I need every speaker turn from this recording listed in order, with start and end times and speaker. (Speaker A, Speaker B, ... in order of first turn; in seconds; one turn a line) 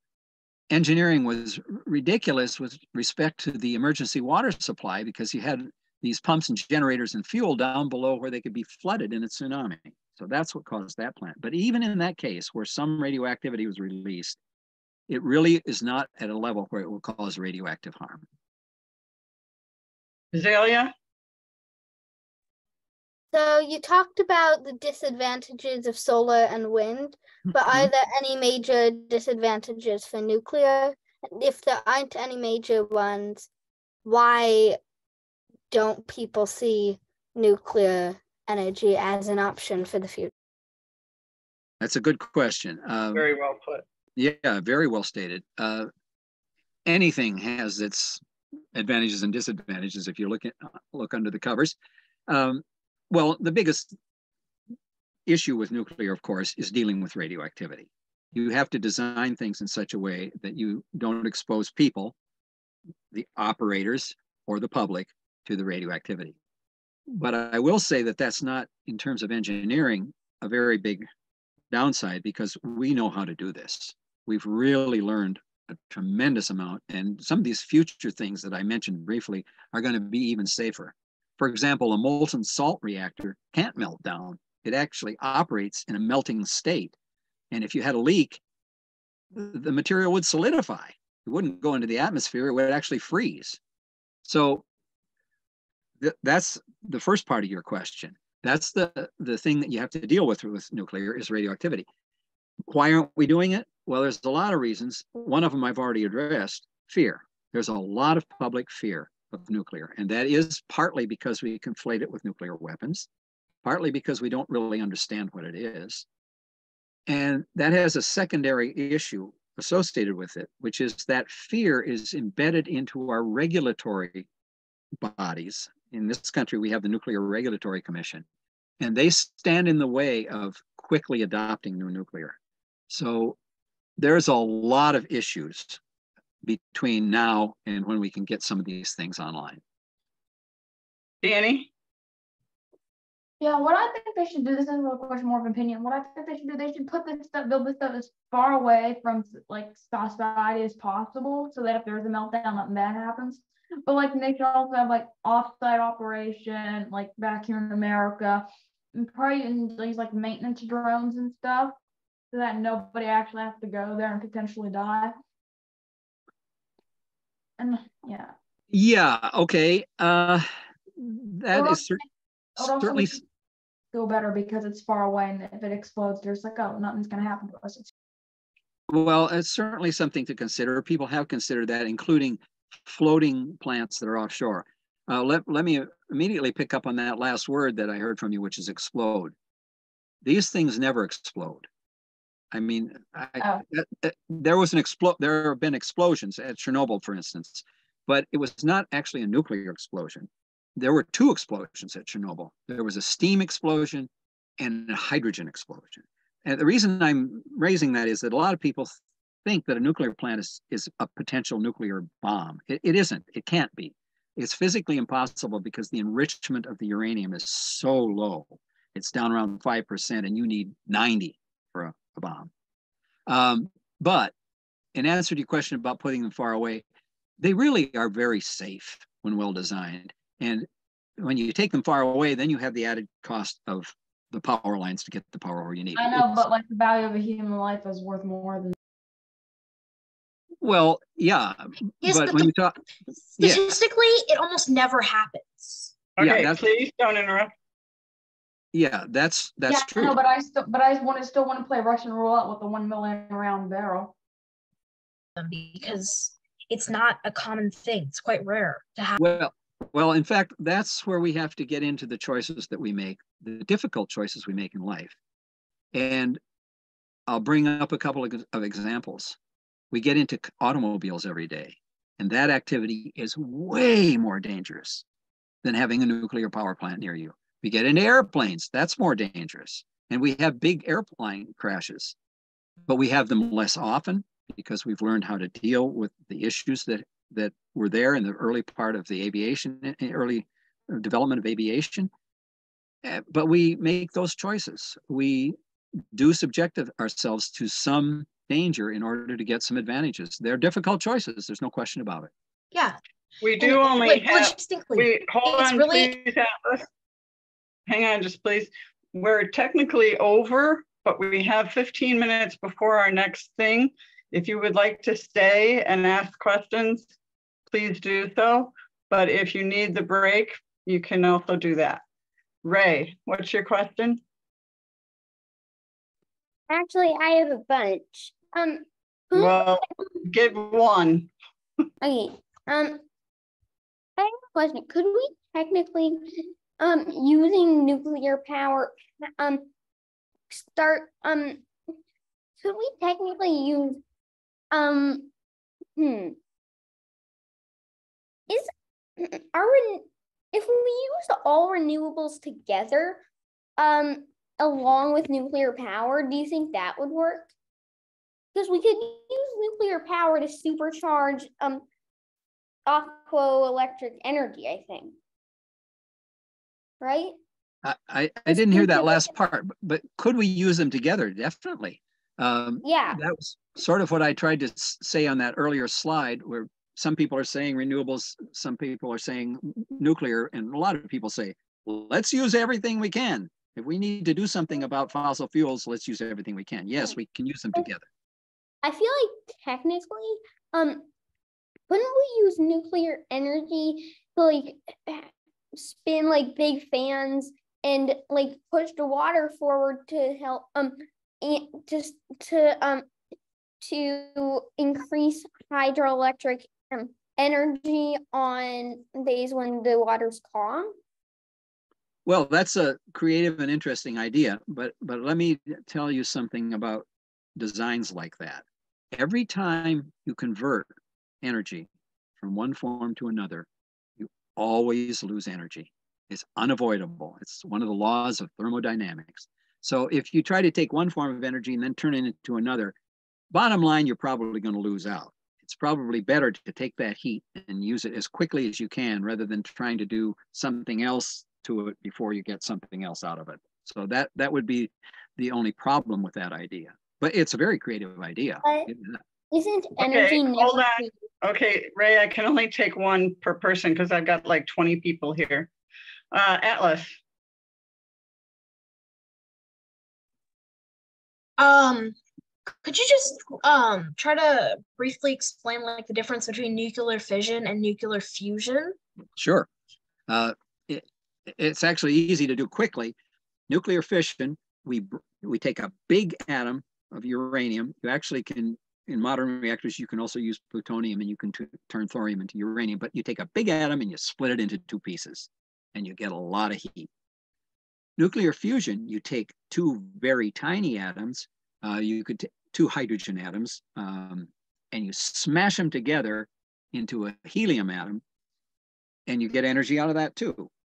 Speaker A: 0.7-14.4
Speaker A: 15.1-18.2
Speaker B: 20.3-20.9
Speaker C: 23.3-33.5
Speaker C: 34.0-34.8
Speaker C: 35.7-40.3
Speaker A: 41.8-43.2
Speaker B: 43.1-43.8
Speaker A: 44.2-45.9
Speaker A: 46.9-48.2
Speaker A: 48.7-51.8
Speaker A: 52.3-53.9
Speaker A: 55.3-62.1
Speaker A: 63.1-66.3
Speaker A: 67.1-71.1
Speaker A: 71.7-86.9
Speaker A: 87.5-88.4
Speaker A: 89.3-93.6
Speaker A: 94.2-94.6
Speaker A: 96.0-101.8
Speaker A: 102.7-113.1
Speaker A: 113.6-116.0
Speaker A: 117.1-124.3
Speaker A: 125.0-128.2
Speaker A: 128.8-132.4
Speaker A: 132.9-133.4
Speaker A: 134.0-135.8
Speaker A: 136.4-139.6
Speaker B: 141.2-141.7
Speaker D: 143.4-161.8
Speaker D: 162.3-165.2
Speaker D: 167.6-168.3
Speaker A: 168.7-172.0
Speaker D: 171.5-172.0
Speaker A: 172.6-173.2
Speaker D: 172.6-173.2
Speaker D: 173.9-177.9
Speaker A: 178.9-189.3
Speaker A: 190.2-191.7
Speaker A: 192.5-222.5
Speaker A: 223.3-224.3
Speaker A: 224.9-226.8
Speaker A: 227.4-230.7
Speaker A: 231.2-236.4
Speaker D: 235.9-238.8
Speaker A: 240.6-242.8
Speaker E: 242.0-242.5
Speaker E: 243.4-245.9
Speaker A: 243.4-243.8
Speaker B: 246.2-247.5
Speaker A: 246.2-246.6
Speaker A: 248.7-250.2
Speaker D: 249.7-254.1
Speaker E: 255.3-259.2
Speaker A: 259.2-265.2
Speaker A: 265.9-266.4
Speaker A: 267.3-269.4
Speaker A: 269.9-275.0
Speaker A: 275.6-282.1
Speaker A: 282.9-292.1
Speaker A: 293.0-302.3
Speaker E: 302.7-303.0
Speaker B: 303.4-306.9
Speaker E: 303.6-306.1
Speaker B: 307.9-317.1
Speaker B: 317.7-322.0
Speaker B: 322.6-324.2
Speaker F: 326.7-329.8
Speaker B: 329.3-331.3
Speaker F: 332.0-333.0
Speaker F: 334.2-339.7
Speaker F: 340.5-341.6
Speaker F: 342.6-344.0
Speaker F: 344.7-345.3
Speaker F: 345.9-346.4
Speaker F: 348.5-353.2
Speaker F: 353.8-357.5
Speaker F: 358.5-361.8
Speaker F: 362.9-365.1
Speaker F: 367.0-367.4
Speaker A: 367.8-388.1
Speaker F: 368.5-369.3
Speaker F: 372.8-373.2
Speaker F: 388.8-391.1
Speaker F: 391.9-403.1
Speaker F: 403.8-410.9
Speaker A: 412.2-417.1
Speaker A: 417.6-423.7
Speaker A: 424.2-432.9
Speaker A: 433.5-449.2
Speaker F: 448.6-448.9
Speaker F: 449.5-451.1
Speaker B: 450.0-455.7
Speaker B: 456.3-457.2
Speaker E: 461.6-462.1
Speaker E: 462.7-469.0
Speaker A: 469.4-469.7
Speaker A: 470.3-473.1
Speaker A: 473.7-487.1
Speaker A: 488.2-498.2
Speaker A: 499.3-500.7